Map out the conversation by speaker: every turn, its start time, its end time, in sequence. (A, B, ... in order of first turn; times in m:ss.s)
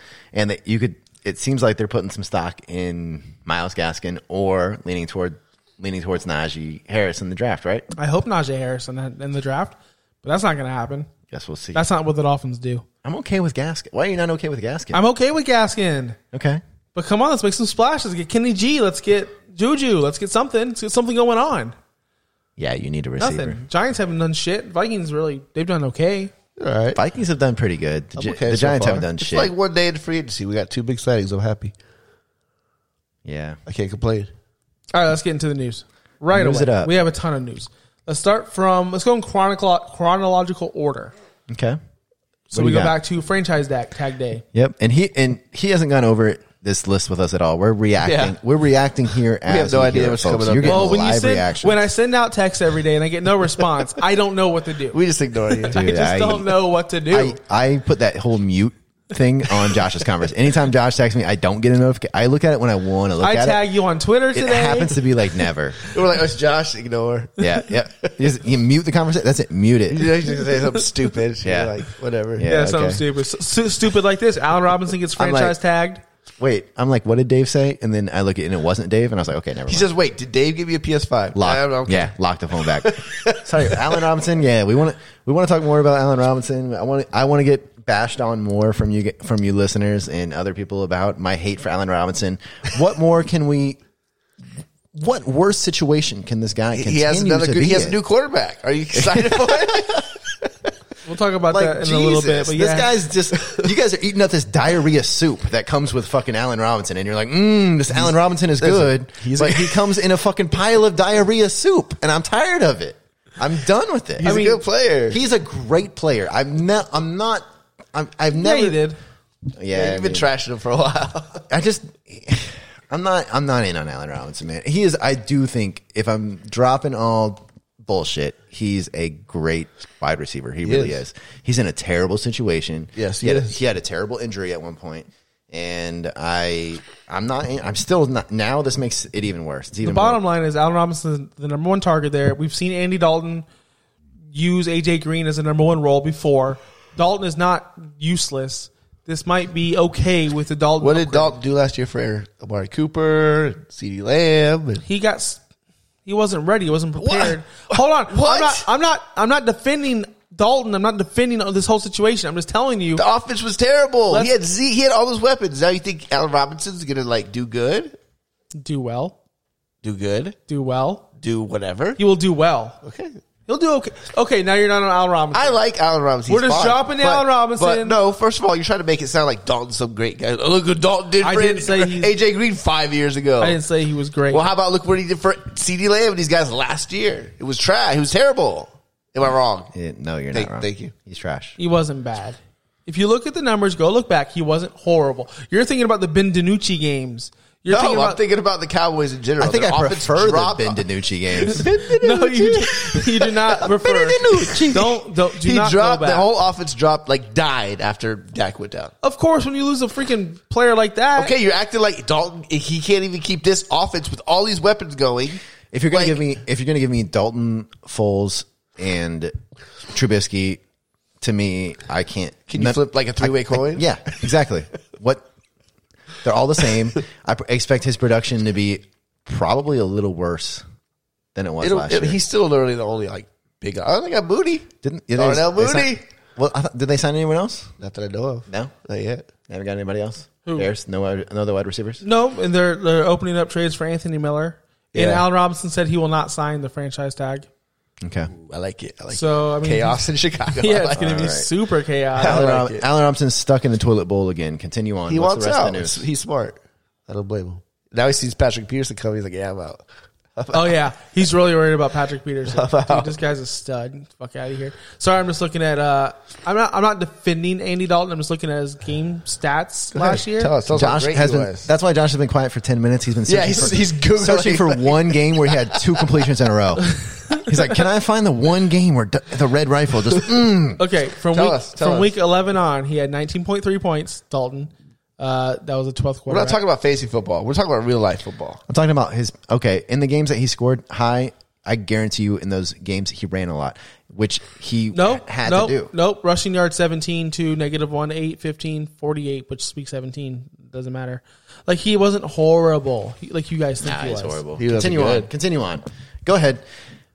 0:00.3-0:07.9 A
0:08.0-0:11.1 B
0:11.3-0:11.8 A
0:11.7-0:12.8 B
0:13.0-0:15.0 A
0:14.9-0:16.2 B
0:16.3-0:16.6 A
0:16.9-0:21.7 B
0:22.6-0:23.6 A
0:23.2-0:26.3 B
0:26.6-0:27.0 C
0:26.9-0:29.5 A
0:28.2-0:31.7 C
0:33.2-0:33.6 A
0:33.7-0:34.3 C
0:34.9-0:41.1 B
0:36.3-0:36.9 A
0:41.5-0:41.8 A
0:42.5-0:44.4 B
0:42.5-0:43.0 A
0:44.5-0:51.9 A
0:48.0-0:48.4 C
0:49.4-0:51.1 C
0:50.7-0:55.0 B
0:54.9-0:55.8 C
0:55.7-0:56.5 A
0:55.7-0:57.4 B
0:57.1-1:03.6 A
1:03.2-1:05.0 B
1:04.3-1:05.8 A
1:05.9-1:08.1 C
1:07.4-1:10.2 A
1:09.9-1:12.5 C
1:11.4-1:11.8 A
1:12.4-1:13.0 A
1:12.5-1:16.0 B
1:15.2-1:15.6 A
1:16.4-1:19.9 A
1:19.7-1:24.0 C
1:21.3-1:33.8 A
1:34.9-1:38.0 A
1:36.7-1:40.1 C
1:39.0-1:39.8 A
1:41.0-1:42.9 B
1:41.5-1:54.4 A
1:43.4-1:43.6 C
1:47.9-1:49.9 C
1:54.2-1:55.2 C
1:54.2-1:54.6 B
1:55.1-1:58.8 A
1:58.3-1:59.0 B
1:59.5-2:00.3 A
1:59.7-2:01.4 C
2:01.5-2:20.2 A
2:10.6-2:11.0 C
2:13.0-2:13.6 C
2:19.8-2:23.4 B
2:24.3-2:31.4 B
2:30.8-2:34.8 C
2:34.8-2:35.4 B
2:36.0-2:43.0 B
2:37.0-2:38.6 C
2:43.0-2:48.0 C
2:48.5-2:49.2 B
2:49.8-2:50.4 C
2:50.5-2:51.0 B
2:51.2-2:52.0 C
2:52.0-2:52.8 B
2:52.8-2:53.2 C
2:53.5-2:55.6 B
2:55.3-3:03.6 C
2:56.3-2:58.0 B
3:01.2-3:02.1 B
3:03.4-3:04.4 B
3:04.3-3:09.7 C
3:09.7-3:11.6 A
3:10.3-3:10.9 C
3:11.6-3:18.2 B
3:17.7-3:20.8 C
3:19.4-3:21.7 A
3:21.4-3:24.9 C
3:22.0-3:26.2 B
3:23.9-3:24.9 A
3:25.4-3:28.9 C
3:29.0-3:31.3 B
3:31.2-3:35.4 C
3:35.7-3:39.3 A
3:35.9-3:36.2 C
3:39.9-3:40.6 A
3:41.2-3:45.2 A
3:42.5-3:44.2 C
3:46.2-3:50.6 A
3:51.3-3:52.2 A
3:51.6-3:56.0 C
3:54.8-3:57.7 A
3:57.8-3:59.2 C
3:58.5-3:58.7 A
3:59.5-4:02.0 A
4:02.0-4:07.5 B
4:04.9-4:05.2 C
4:08.0-4:08.3 A
4:08.3-4:11.3 C
4:09.1-4:12.5 B
4:11.0-4:11.5 A
4:12.2-4:12.8 C
4:12.2-4:16.0 A
4:15.1-4:19.8 C
4:20.4-4:20.8 C
4:20.5-4:30.5 B
4:22.5-4:23.2 C
4:29.9-4:31.7 C
4:30.7-4:40.8 A
4:33.3-4:36.1 C
4:40.8-4:46.6 B
4:41.3-4:42.1 C
4:46.3-4:48.6 C
4:48.7-4:55.9 A
4:54.9-5:04.4 B
5:03.8-5:06.6 A
5:04.6-5:05.3 C